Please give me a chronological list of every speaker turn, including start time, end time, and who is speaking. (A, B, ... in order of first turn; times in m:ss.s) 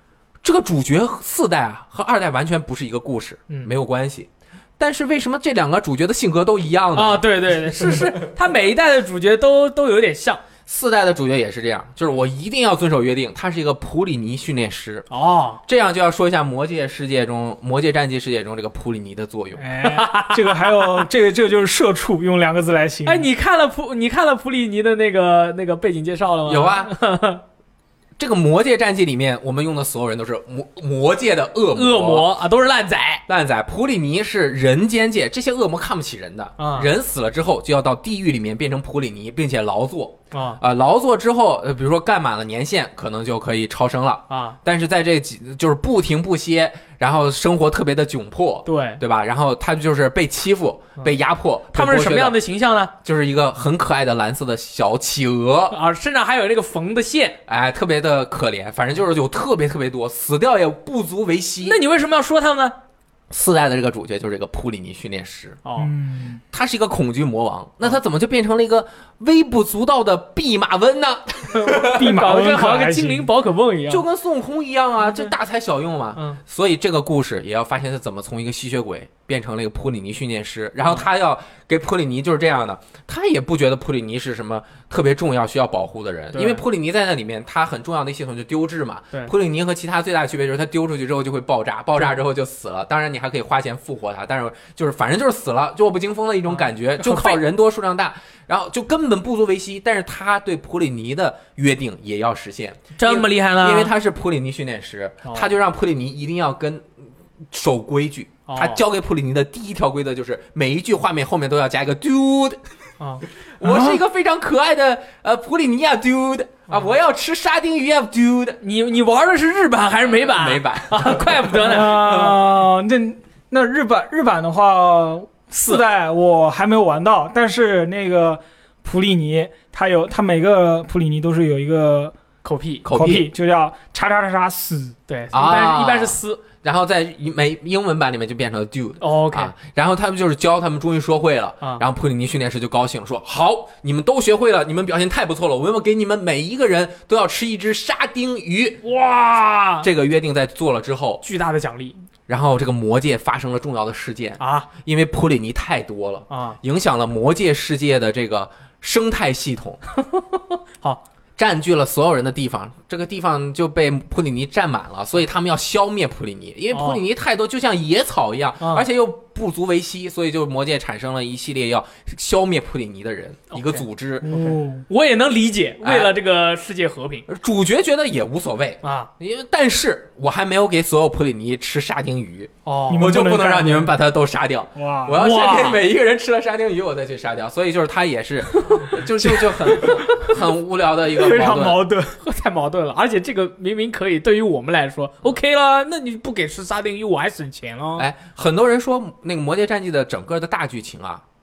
0:00.4-0:08.3 A
0:07.0-0:10.4 B
0:10.7-0:15.1 A
0:15.1-0:15.6 B
0:15.7-0:19.7 A
0:19.6-0:23.3 C
0:19.8-0:21.0 B
0:23.0-0:27.4 B
0:26.5-0:27.0 A
0:28.2-0:32.3 A
0:31.7-0:33.2 B
0:33.3-0:52.4 A
0:36.6-0:36.9 B
0:40.3-0:40.6 B
0:44.3-0:44.6 B
0:48.6-0:49.0 B
0:51.7-0:52.9 B
0:53.0-0:55.8 A
0:55.7-0:57.4 B
0:57.5-1:01.8 A
1:01.6-1:02.8 B
1:03.3-1:05.6 A
1:05.6-1:05.9 B
1:05.8-1:06.4 C
1:06.5-1:12.2 A
1:11.5-1:14.0 B
1:11.8-1:13.3 C
1:13.9-1:46.8 A
1:16.2-1:16.4 B
1:26.3-1:26.6 B
1:36.5-1:37.4 B
1:43.0-1:43.9 B
1:45.2-1:45.5 B
1:47.5-1:52.6 A
1:48.5-1:48.8 B
1:53.0-1:53.2 B
1:53.6-1:58.6 A
1:53.6-1:54.0 C
1:58.6-2:02.3 B
2:00.2-2:02.4 A
2:01.6-2:12.2 C
2:12.4-2:12.8 B
2:12.8-2:13.3 A
2:12.9-2:15.0 C
2:15.1-2:16.4 B
2:15.3-2:28.8 A
2:19.0-2:19.5 B
2:28.8-2:29.9 B
2:29.8-2:31.2 A
2:31.2-2:32.0 B
2:32.3-2:39.8 A
2:34.4-2:34.7 B
2:36.3-2:36.6 B
2:40.0-2:41.0 B
2:41.4-2:54.3 A
2:46.7-2:47.0 B
2:48.6-2:48.9 B
2:53.5-2:57.3 B
2:54.2-2:54.9 C
2:55.8-2:56.1 A
2:57.3-3:11.8 A
2:58.8-2:59.1 B
3:02.6-3:03.1 B
3:02.9-3:04.0 C
3:04.8-3:05.2 C
3:05.2-3:05.8 B
3:09.2-3:10.4 C
3:11.1-3:12.2 C
3:12.2-3:18.1 B
3:18.0-3:21.2 A